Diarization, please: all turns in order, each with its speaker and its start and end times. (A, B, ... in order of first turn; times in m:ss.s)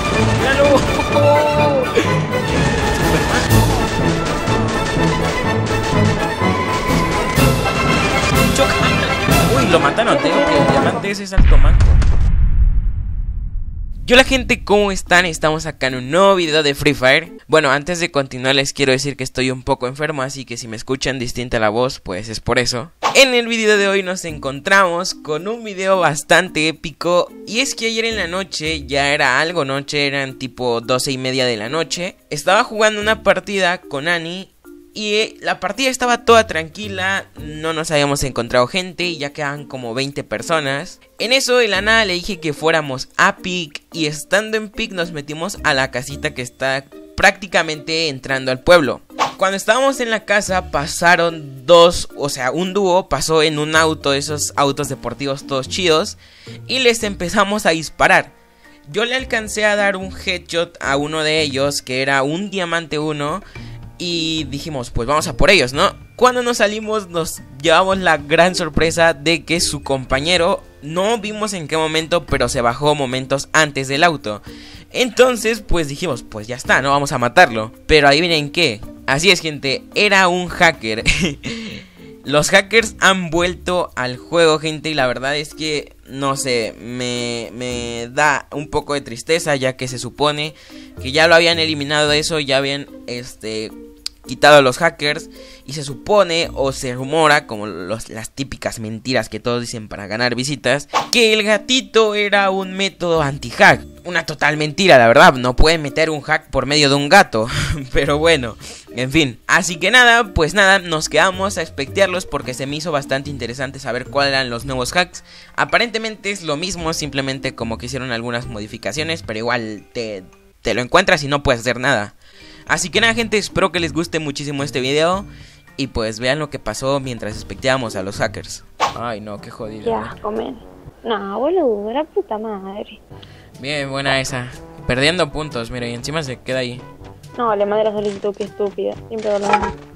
0:00.3-0:03.6 A
0:04.5-0:04.8 A
0:08.3-0:12.0 A
0:10.1-0:11.0 B
0:14.0-0:58.3 A
0:58.9-1:03.4 A
1:04.0-1:33.7 A
1:34.2-2:02.2 A
2:02.7-2:10.1 A
2:09.8-2:13.0 B
2:13.6-2:16.8 A
2:17.3-2:19.7 B